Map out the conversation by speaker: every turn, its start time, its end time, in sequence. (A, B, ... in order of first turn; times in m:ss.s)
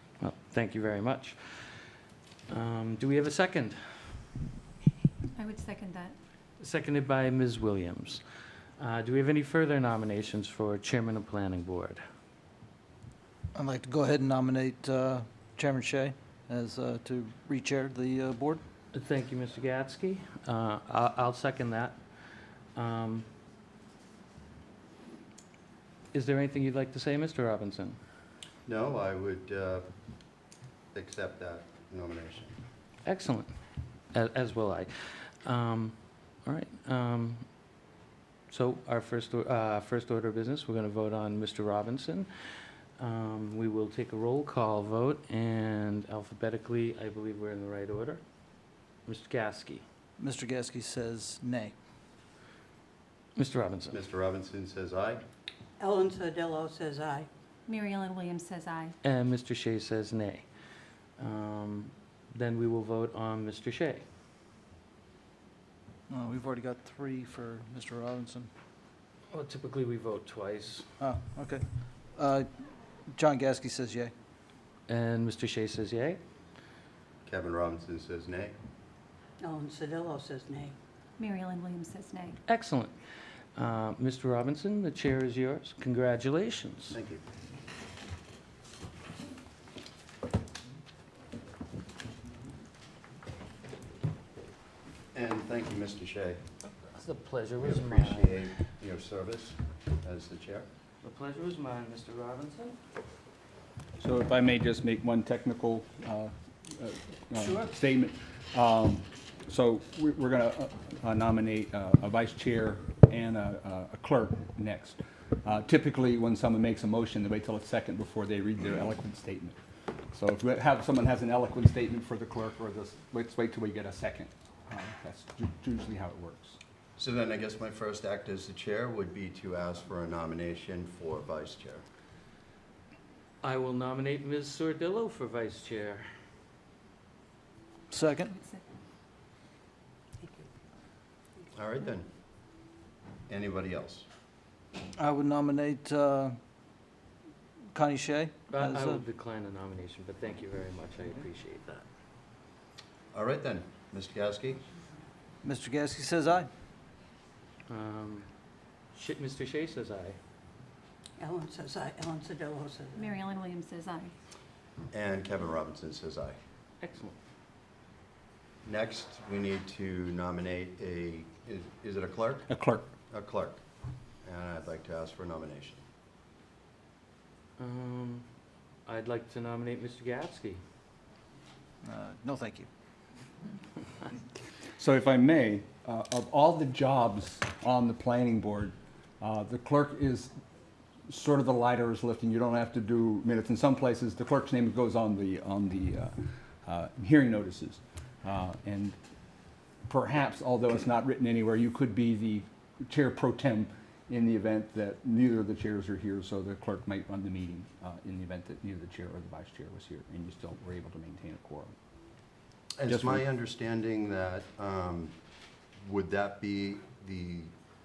0:00.2-0:01.8 A
0:02.5-0:04.3 A
0:05.4-0:06.2 B
0:06.6-0:08.2 A
0:08.8-0:12.0 A
0:13.5-0:18.6 C
0:18.9-0:22.0 A
0:22.7-0:23.3 A
0:26.1-0:28.0 A
0:28.6-0:29.8 D
0:30.9-0:32.5 D
0:33.0-0:33.5 A
0:34.1-0:37.4 A
0:38.5-0:42.3 A
0:43.0-0:48.2 A
0:49.1-0:49.8 A
0:50.2-0:51.7 C
0:53.4-0:54.0 A
0:53.9-0:55.2 D
0:55.8-0:57.3 E
0:57.7-0:58.9 B
0:59.0-1:00.4 A
1:01.2-1:04.0 A
1:06.1-1:08.5 C
1:09.3-1:10.9 A
1:11.0-1:11.6 C
1:12.2-1:12.5 C
1:13.1-1:14.1 C
1:14.9-1:16.2 A
1:17.2-1:18.5 D
1:19.4-1:20.7 E
1:21.2-1:22.4 B
1:22.5-1:22.9 A
1:23.6-1:27.0 A
1:26.9-1:27.2 D
1:35.1-1:36.4 D
1:36.6-1:38.5 A
1:37.6-1:40.7 D
1:41.0-1:42.8 A
1:44.0-1:59.6 F
1:47.3-1:47.7 A
2:00.1-2:06.6 F
2:07.0-2:11.8 D
2:13.4-2:16.1 A
2:17.9-2:18.4 C
2:20.2-2:20.5 E
2:21.5-2:22.0 D
2:23.3-2:24.0 D
2:25.0-2:26.4 C
2:27.7-2:29.0 C
2:28.5-2:31.8 A
2:33.1-2:34.6 D
2:35.4-2:36.5 C
2:37.7-2:38.3 A
2:38.9-2:40.2 A
2:41.2-2:43.1 E
2:43.0-2:44.1 B
2:44.9-2:46.4 D
2:46.8-2:47.2 A
2:48.6-2:52.4 D
2:52.5-2:52.9 F
2:53.1-2:53.6 D
2:54.2-2:55.8 D
2:57.6-2:58.2 A
2:58.8-3:00.6 A
3:01.8-3:02.7 C
3:04.8-3:10.3 F
3:11.1-3:19.0 F
3:19.9-3:31.7 F
3:32.8-3:35.1 D
3:32.9-3:33.2 F
3:35.8-3:37.5 D